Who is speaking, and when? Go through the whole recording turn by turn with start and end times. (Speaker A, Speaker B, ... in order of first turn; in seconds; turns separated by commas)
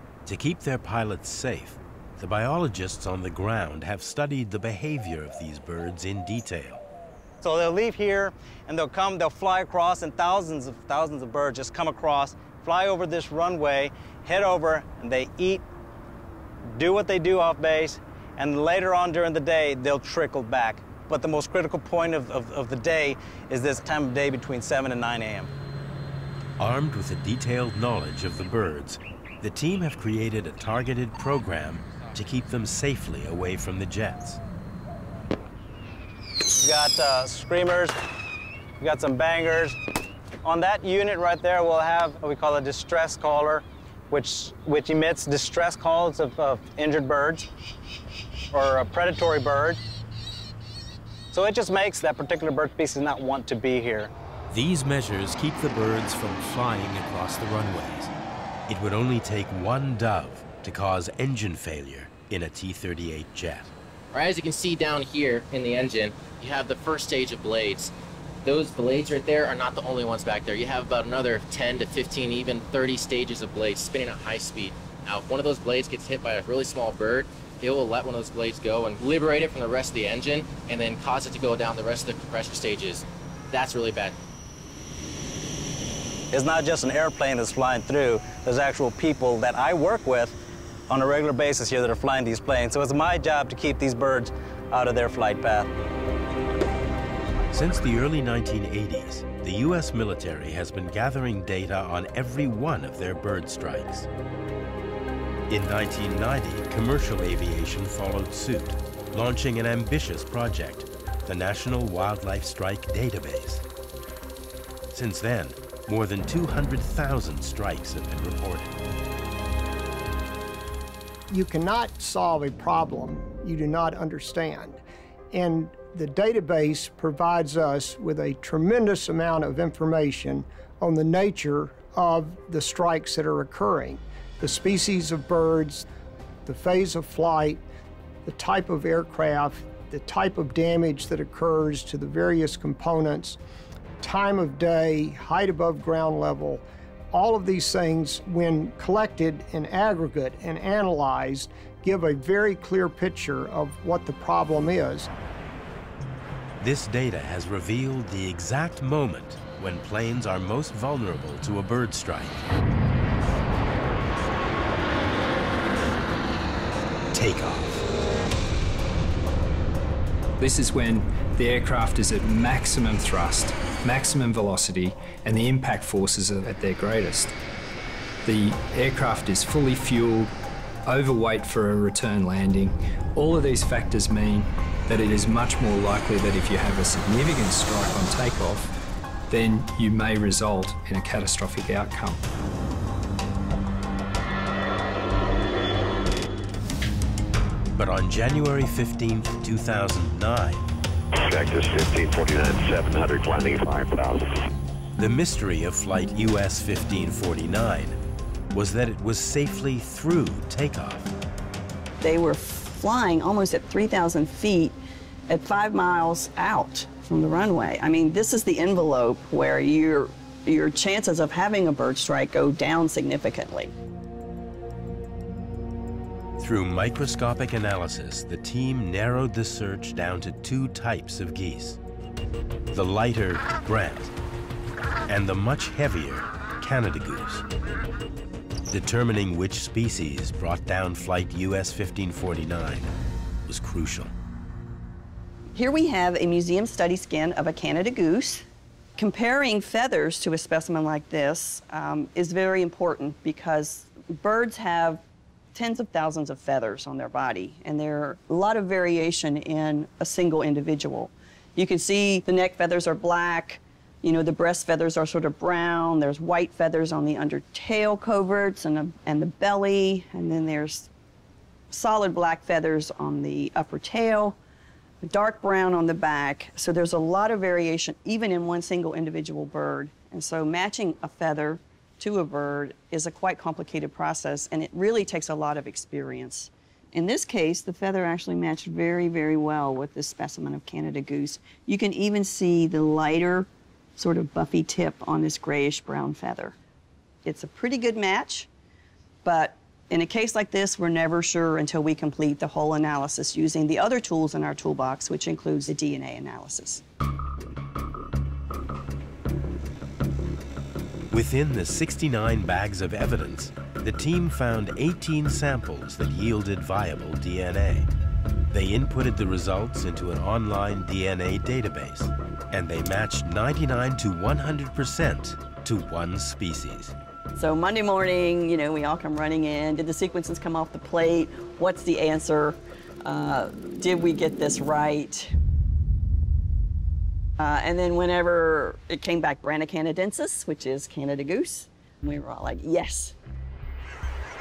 Speaker A: 0.3-6.8, Speaker B: 7.4-15.6, Speaker B: 16.7-25.5, Speaker A: 26.6-34.4, Speaker B: 36.5-38.0, Speaker B: 38.8-39.8, Speaker B: 40.4-47.5, Speaker B: 48.5-49.8, Speaker B: 51.3-54.1, Speaker A: 54.5-58.1, Speaker A: 58.7-63.7, Speaker C: 64.1-67.9, Speaker C: 68.5-84.2, Speaker B: 86.3-90.4, Speaker B: 90.9-95.7, Speaker A: 97.5-104.1, Speaker A: 105.5-113.6, Speaker A: 114.9-118.8, Speaker D: 121.3-135.9, Speaker D: 136.5-137.6, Speaker D: 138.2-143.4, Speaker D: 144.0-155.1, Speaker A: 156.6-162.4, Speaker A: 167.1-167.9, Speaker E: 170.4-177.4, Speaker E: 178.2-180.3, Speaker E: 180.9-188.7, Speaker E: 189.3-192.2, Speaker A: 197.8-200.7, Speaker F: 201.2-204.3, Speaker A: 204.9-208.0, Speaker A: 208.5-211.1, Speaker G: 212.0-214.8, Speaker G: 215.3-223.7, Speaker A: 226.4-231.8, Speaker A: 232.7-234.1, Speaker A: 235.1-237.4, Speaker A: 238.7-242.9, Speaker A: 243.5-244.1, Speaker G: 245.5-248.4, Speaker G: 249.0-255.0, Speaker G: 255.5-270.9, Speaker G: 271.7-274.4, Speaker G: 275.0-296.6, Speaker G: 297.2-298.5, Speaker G: 299.2-306.8, Speaker A: 311.1-317.9, Speaker A: 318.5-326.9, Speaker G: 327.4-335.3, Speaker G: 337.4-343.1